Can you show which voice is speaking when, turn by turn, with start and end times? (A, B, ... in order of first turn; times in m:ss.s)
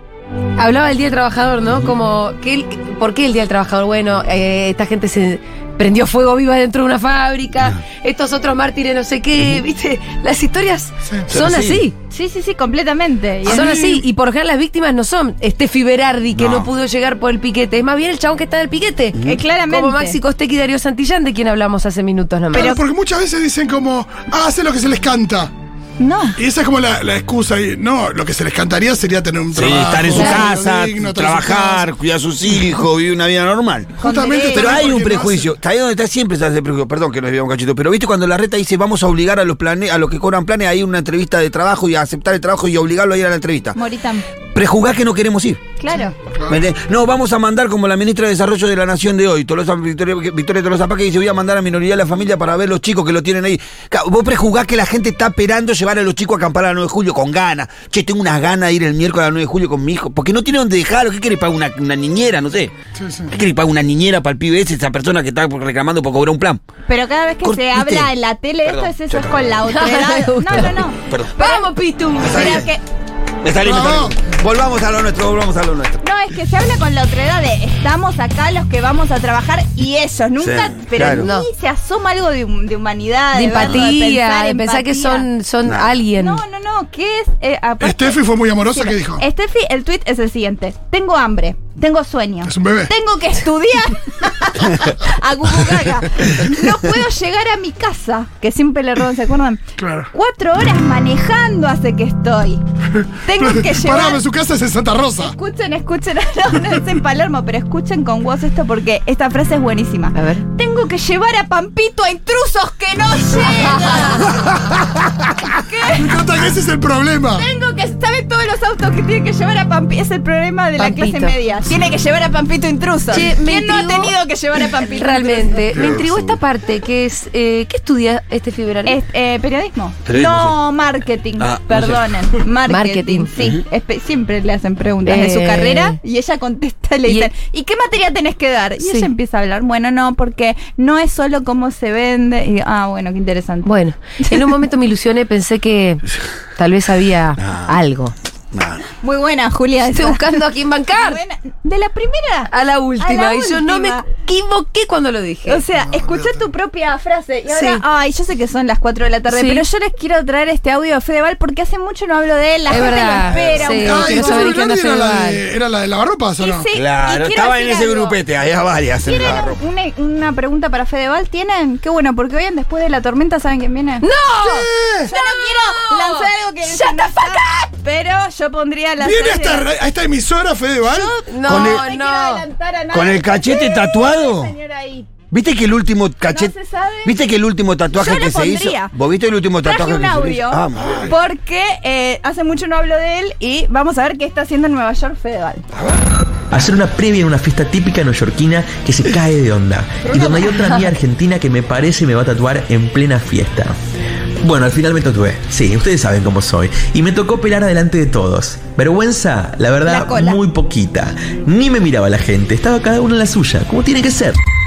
0:00.6-0:11.9 A
0:11.3-0:11.8 B
0:12.1-0:13.8 C
0:13.4-0:14.0 D
0:13.5-0:19.2 A
0:16.4-0:16.7 B
0:19.1-0:19.4 B
0:19.2-0:20.2 C
0:19.7-0:22.8 A
0:22.5-0:25.5 D
0:22.5-0:22.8 C
0:26.0-0:26.4 C
0:26.4-0:31.9 D
0:29.5-0:43.8 B
0:30.2-0:30.4 C
0:34.0-0:35.5 D
0:34.0-0:34.9 C
0:43.8-0:44.2 C
0:44.5-0:45.6 B
0:45.8-0:46.2 C
0:46.3-0:46.6 D
0:46.5-1:02.7 B
1:03.0-1:03.3 D
1:03.3-1:06.6 B
1:06.9-1:12.8 C
1:07.4-1:08.1 B
1:08.6-1:09.5 B
1:09.6-1:10.8 A
1:11.1-1:11.3 B
1:11.4-1:12.6 A
1:12.2-1:12.7 B
1:13.4-1:16.0 B
1:13.6-1:14.2 D
1:16.0-1:25.3 C
1:20.4-1:21.3 B
1:21.1-1:21.5 A
1:23.3-1:26.4 A
1:25.6-1:25.9 B
1:26.2-1:42.6 C
1:27.8-1:29.2 D
1:32.4-1:32.9 D
1:39.8-1:40.1 D
1:43.0-1:45.3 D
1:43.2-1:44.2 C
1:45.2-1:54.4 C
1:50.1-1:50.4 A
1:53.5-1:54.3 A
1:55.5-1:56.3 C
1:55.9-1:57.4 D
1:57.4-2:05.6 C
2:00.8-2:01.3 A
2:03.1-2:04.1 A
2:04.9-2:09.0 A
2:05.7-2:06.4 B
2:08.8-2:23.7 C
2:10.1-2:10.6 B
2:11.4-2:12.1 B
2:12.7-2:13.3 A
2:15.0-2:16.0 A
2:18.8-2:19.1 A
2:23.6-2:26.0 A
2:24.2-2:24.5 C
2:26.6-2:28.1 A
2:27.4-2:27.7 B
2:28.5-2:28.8 B
2:29.0-2:34.0 C
2:29.9-2:31.2 A
2:32.5-2:35.6 A
2:35.5-2:44.5 C
2:35.9-2:36.4 D
2:37.5-2:37.8 A
2:39.3-2:39.6 A
2:42.7-2:43.9 B
2:42.7-2:45.4 A
2:43.7-2:46.7 D
2:46.4-2:48.2 C
2:46.7-2:49.6 B
2:49.0-2:54.0 C
2:54.0-2:57.7 A
2:54.5-2:55.1 D
2:55.1-2:59.7 C
2:59.0-3:01.2 D
3:00.8-3:05.1 C
3:01.2-3:02.4 A
3:01.4-3:01.8 B
3:02.9-3:04.5 B
3:05.3-3:06.5 B
3:06.3-3:07.2 C
3:07.0-3:11.1 B
3:07.9-3:08.9 C
3:09.6-3:15.6 C
3:16.5-3:23.7 E
3:24.4-3:34.4 E
3:29.8-3:30.4 C